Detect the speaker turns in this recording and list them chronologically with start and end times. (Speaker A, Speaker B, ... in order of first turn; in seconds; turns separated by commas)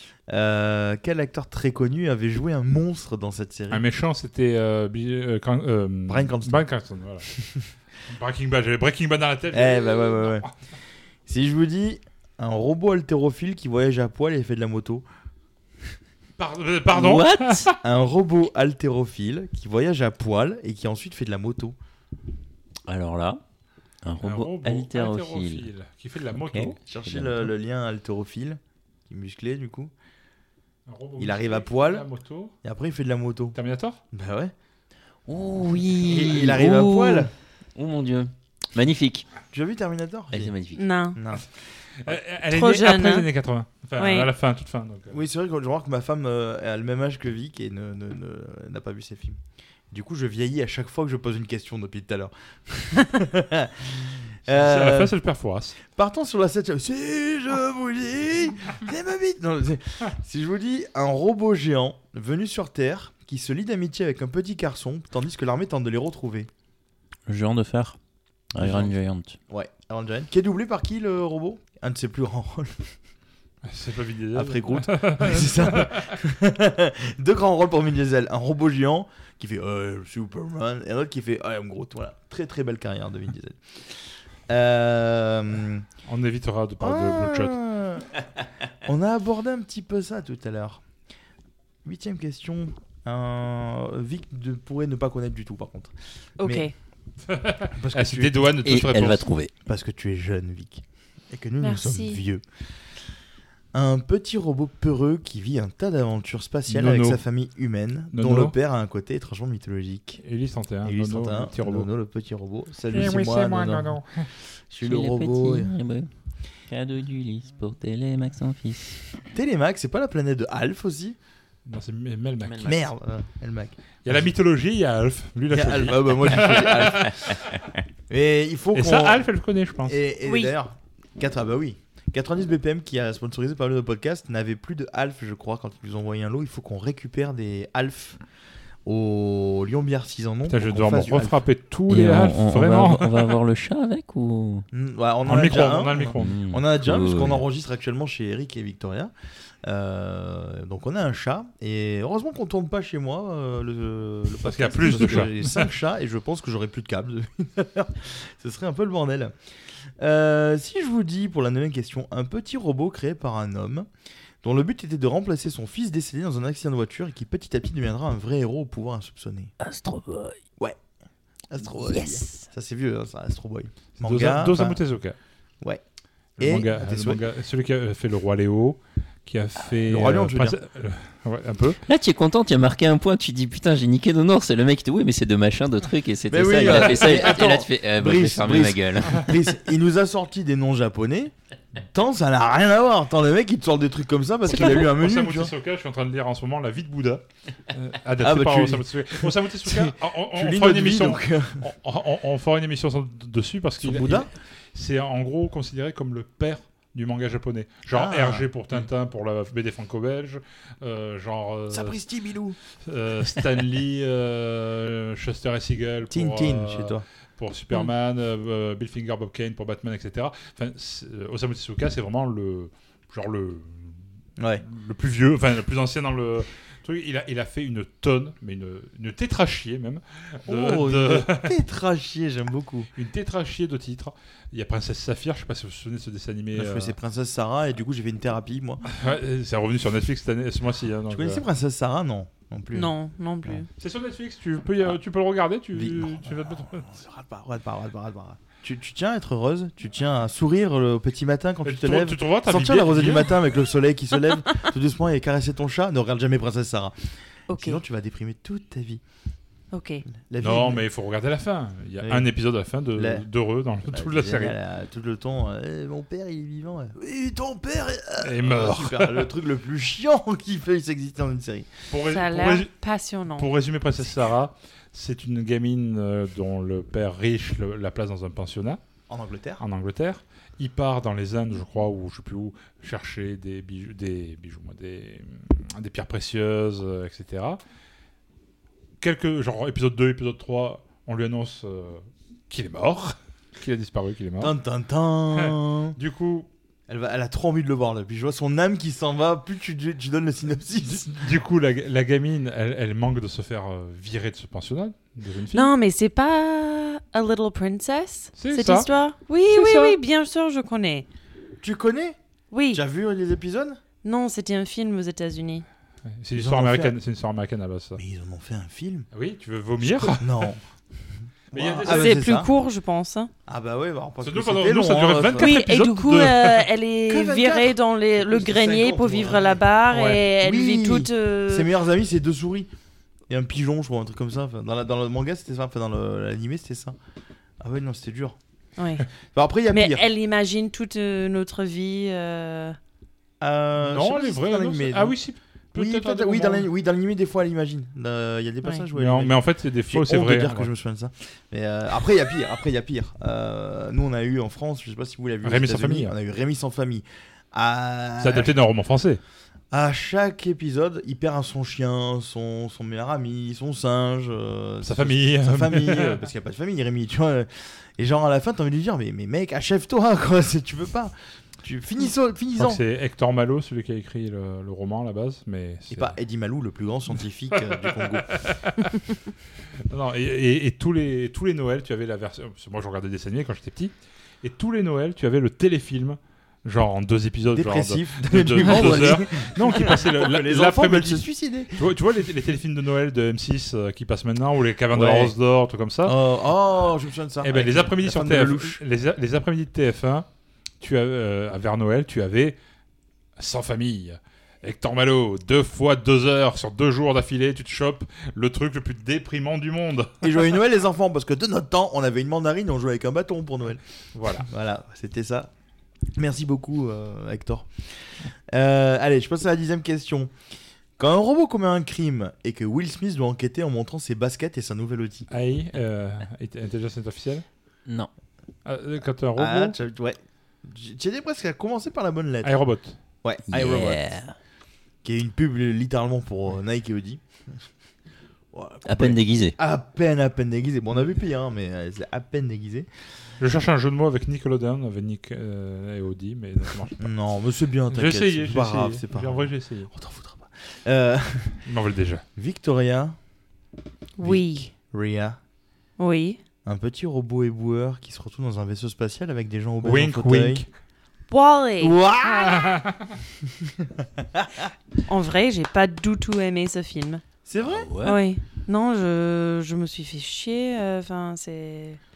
Speaker A: 0.3-3.8, Speaker B: 3.7-7.3, Speaker A: 6.1-6.6, Speaker B: 8.1-10.5, Speaker A: 9.5-10.5, Speaker A: 11.2-15.0, Speaker B: 16.4-17.8, Speaker C: 16.9-17.7, Speaker A: 17.8-21.7, Speaker C: 22.9-23.4, Speaker C: 24.0-25.7, Speaker B: 24.2-26.8, Speaker C: 26.4-27.5, Speaker A: 26.8-29.9, Speaker B: 30.9-32.5, Speaker A: 31.2-32.0, Speaker A: 32.6-33.6, Speaker B: 33.5-34.0, Speaker A: 34.1-34.5, Speaker C: 35.3-39.2, Speaker A: 36.0-37.3, Speaker A: 39.5-40.5, Speaker C: 40.3-40.8, Speaker D: 40.8-41.2, Speaker A: 41.1-41.5, Speaker B: 42.0-45.2, Speaker D: 42.5-43.3, Speaker D: 44.0-44.3, Speaker A: 45.1-49.4, Speaker A: 49.9-55.1, Speaker B: 54.5-55.8, Speaker A: 55.9-66.5, Speaker C: 67.3-68.0, Speaker C: 68.5-69.4, Speaker A: 68.6-68.9, Speaker A: 69.5-72.9, Speaker B: 73.6-76.1, Speaker A: 74.3-85.8, Speaker B: 86.0-87.6, Speaker A: 86.8-88.2, Speaker A: 88.8-90.8, Speaker A: 91.8-96.7, Speaker D: 96.4-96.7, Speaker B: 97.3-99.2, Speaker A: 97.8-98.5, Speaker C: 98.6-99.5, Speaker A: 99.6-102.4, Speaker D: 101.6-102.2, Speaker A: 103.7-110.2, Speaker B: 106.7-107.2, Speaker B: 108.1-108.5, Speaker B: 110.2-111.9, Speaker A: 110.8-114.0, Speaker B: 112.9-114.2, Speaker A: 114.7-115.7, Speaker C: 114.8-116.1, Speaker C: 116.7-119.0, Speaker A: 119.3-121.2, Speaker B: 121.7-122.8, Speaker C: 122.4-122.8, Speaker A: 122.6-124.2, Speaker B: 124.0-127.6, Speaker A: 125.5-127.4, Speaker A: 128.1-129.2, Speaker B: 128.7-130.0, Speaker A: 129.8-138.2, Speaker D: 130.2-130.5, Speaker A: 138.8-141.4, Speaker B: 140.5-143.4, Speaker C: 141.9-144.7, Speaker A: 144.7-149.1, Speaker B: 145.2-146.4, Speaker C: 146.2-147.4, Speaker A: 149.6-159.3, Speaker B: 154.4-155.7, Speaker A: 160.0-163.9, Speaker A: 164.4-169.5, Speaker C: 169.6-170.4, Speaker A: 171.5-174.8, Speaker C: 171.9-172.4, Speaker B: 174.0-175.2, Speaker A: 176.4-177.2, Speaker B: 176.4-181.8, Speaker A: 179.8-180.6, Speaker C: 181.8-189.4, Speaker A: 186.3-195.5, Speaker B: 194.5-212.0, Speaker A: 198.2-201.7, Speaker A: 203.8-204.3, Speaker A: 207.9-208.5, Speaker A: 211.7-212.6, Speaker B: 212.8-224.0, Speaker A: 216.1-217.0, Speaker A: 224.4-224.6, Speaker B: 224.6-231.6, Speaker A: 230.4-232.9, Speaker B: 232.9-236.9, Speaker A: 236.5-238.9, Speaker B: 238.9-241.4, Speaker A: 241.1-243.6, Speaker D: 242.7-243.7, Speaker B: 243.8-246.9, Speaker A: 245.7-256.9, Speaker B: 251.6-253.4, Speaker D: 257.5-257.8, Speaker A: 257.6-259.0, Speaker D: 259.7-260.0, Speaker A: 260.1-260.8, Speaker B: 260.4-264.5, Speaker A: 262.0-262.3, Speaker A: 262.9-263.2, Speaker A: 263.9-271.7, Speaker B: 268.2-269.3, Speaker B: 271.9-272.7, Speaker D: 272.1-273.5, Speaker B: 273.4-278.8, Speaker A: 279.1-279.6, Speaker B: 279.6-287.6, Speaker B: 289.0-294.5, Speaker A: 294.4-296.0, Speaker B: 295.4-296.5, Speaker A: 296.9-301.1, Speaker B: 300.9-305.7, Speaker D: 305.5-311.1, Speaker B: 308.4-308.9, Speaker B: 309.5-310.0, Speaker A: 311.6-312.2, Speaker D: 312.5-312.8, Speaker A: 312.7-313.8, Speaker D: 314.0-315.6, Speaker B: 316.1-318.0, Speaker A: 316.3-316.9, Speaker A: 318.0-319.1, Speaker B: 319.1-320.6, Speaker A: 319.8-320.6, Speaker A: 321.5-322.5, Speaker B: 321.5-322.3, Speaker D: 321.8-323.3, Speaker A: 323.5-325.5, Speaker B: 324.2-326.7, Speaker D: 325.4-331.7, Speaker A: 327.1-329.6, Speaker B: 329.9-330.2, Speaker A: 330.4-332.7, Speaker A: 333.3-337.0, Speaker A: 337.6-338.4, Speaker D: 338.8-339.1, Speaker A: 339.3-340.1, Speaker D: 339.7-342.8, Speaker A: 343.4-345.1, Speaker B: 343.8-346.7, Speaker A: 345.7-358.5, Speaker B: 348.9-350.7, Speaker B: 355.4-356.1, Speaker B: 358.2-359.2, Speaker A: 359.7-372.8, Speaker B: 364.8-366.2, Speaker B: 372.6-376.1, Speaker A: 375.9-378.4, Speaker B: 377.5-379.0, Speaker B: 379.9-396.2, Speaker A: 387.5-391.9, Speaker A: 394.9-395.3, Speaker A: 396.0-398.8, Speaker B: 397.4-400.2, Speaker B: 400.8-402.6, Speaker B: 403.4-410.4, Speaker A: 410.2-413.8, Speaker B: 414.1-414.5, Speaker A: 414.4-415.5, Speaker A: 416.1-420.3, Speaker A: 421.0-425.2, Speaker B: 425.3-427.4, Speaker B: 428.6-429.8, Speaker A: 429.4-432.6, Speaker B: 432.4-433.0, Speaker A: 433.2-434.0, Speaker C: 433.5-434.3, Speaker A: 435.0-437.7, Speaker A: 438.5-442.9, Speaker C: 438.8-439.6, Speaker B: 443.4-447.1, Speaker A: 447.0-451.6, Speaker B: 447.9-449.9, Speaker B: 451.6-452.2, Speaker A: 452.4-453.1, Speaker D: 454.2-454.7, Speaker A: 454.2-455.4, Speaker D: 456.0-456.4, Speaker A: 456.6-460.6, Speaker B: 459.8-460.7, Speaker D: 461.3-462.7, Speaker A: 461.8-462.7, Speaker B: 462.5-463.1, Speaker A: 463.4-464.7, Speaker D: 465.1-467.2, Speaker A: 467.4-467.9, Speaker C: 467.6-468.2, Speaker D: 468.0-472.0